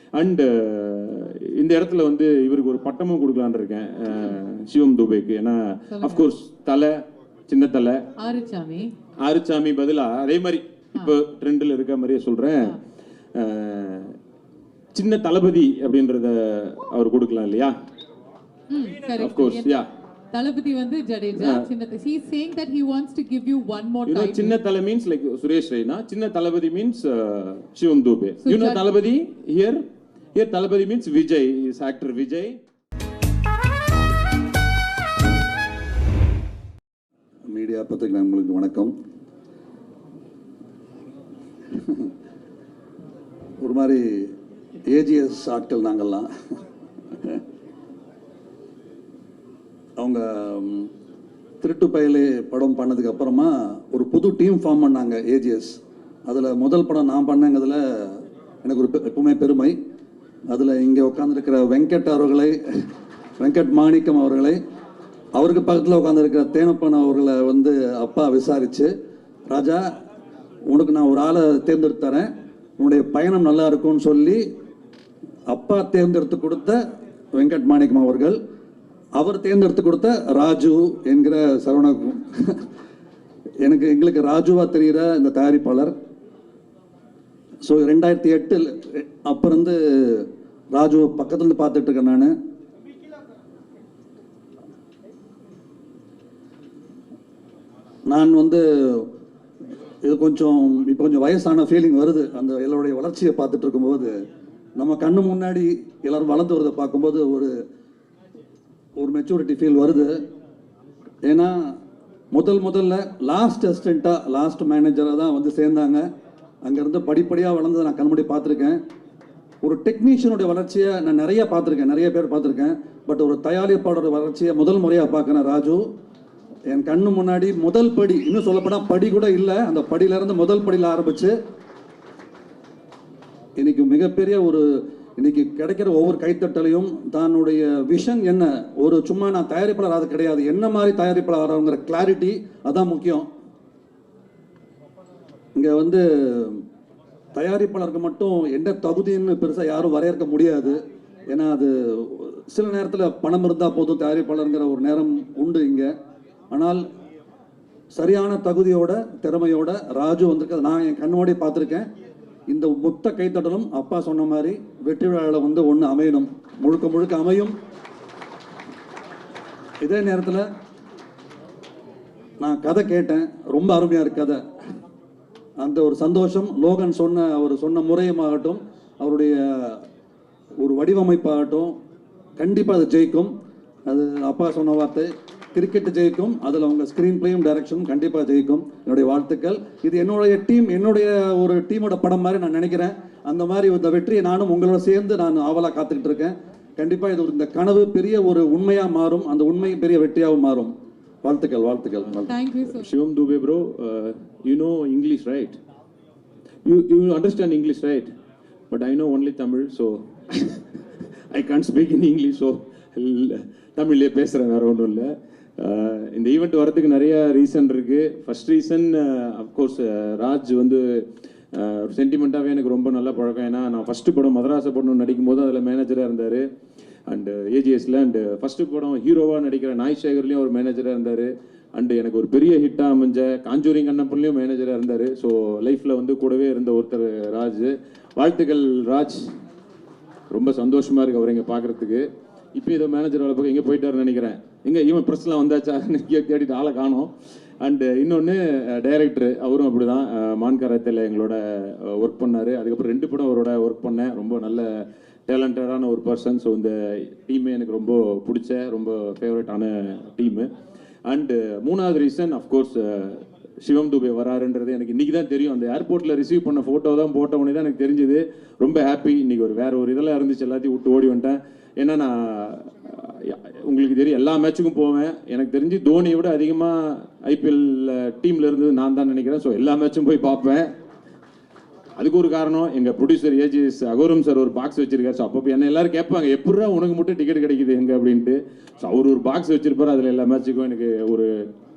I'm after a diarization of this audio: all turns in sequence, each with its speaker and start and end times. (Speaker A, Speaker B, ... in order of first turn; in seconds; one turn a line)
Speaker A: 0.2-8.1
Speaker B: 5.9-6.3
Speaker B: 8.2-8.9
Speaker A: 9.2-12.8
Speaker A: 13.3-14.2
Speaker A: 14.9-17.8
Speaker B: 18.7-19.7
Speaker A: 19.2-19.9
Speaker B: 20.3-24.6
Speaker A: 21.4-21.7
Speaker A: 24.1-29.8
Speaker B: 28.4-28.8
Speaker A: 30.4-32.6
Speaker C: 37.5-38.9
Speaker C: 43.6-44.3
Speaker C: 44.9-46.3
Speaker C: 50.0-50.9
Speaker C: 51.6-59.8
Speaker C: 60.5-64.6
Speaker C: 65.4-68.9
Speaker C: 69.5-69.8
Speaker C: 70.7-72.3
Speaker C: 72.8-74.4
Speaker C: 75.5-76.8
Speaker C: 77.4-78.4
Speaker C: 79.2-82.6
Speaker C: 83.6-85.9
Speaker C: 87.6-92.3
Speaker C: 98.1-99.1
Speaker C: 100.0-104.1
Speaker C: 104.8-107.6
Speaker C: 109.0-110.2
Speaker C: 111.2-111.8
Speaker C: 112.3-116.0
Speaker C: 116.7-118.8
Speaker C: 119.6-125.8
Speaker C: 126.7-131.3
Speaker C: 133.6-143.3
Speaker C: 145.6-146.6
Speaker C: 147.3-155.9
Speaker C: 156.5-156.8
Speaker C: 157.9-161.9
Speaker C: 162.5-167.5
Speaker C: 169.8-170.5
Speaker C: 172.4-174.4
Speaker C: 175.6-179.8
Speaker C: 180.6-181.7
Speaker C: 182.4-183.3
Speaker C: 183.9-200.7
Speaker C: 201.2-202.3
Speaker B: 202.3-202.9
Speaker A: 202.7-205.6
Speaker A: 206.7-208.1
Speaker A: 208.7-210.7
Speaker A: 211.3-226.5
Speaker A: 227.1-239.3
Speaker A: 240.3-247.1
Speaker A: 247.6-260.5
Speaker A: 261.1-280.7
Speaker A: 282.0-291.5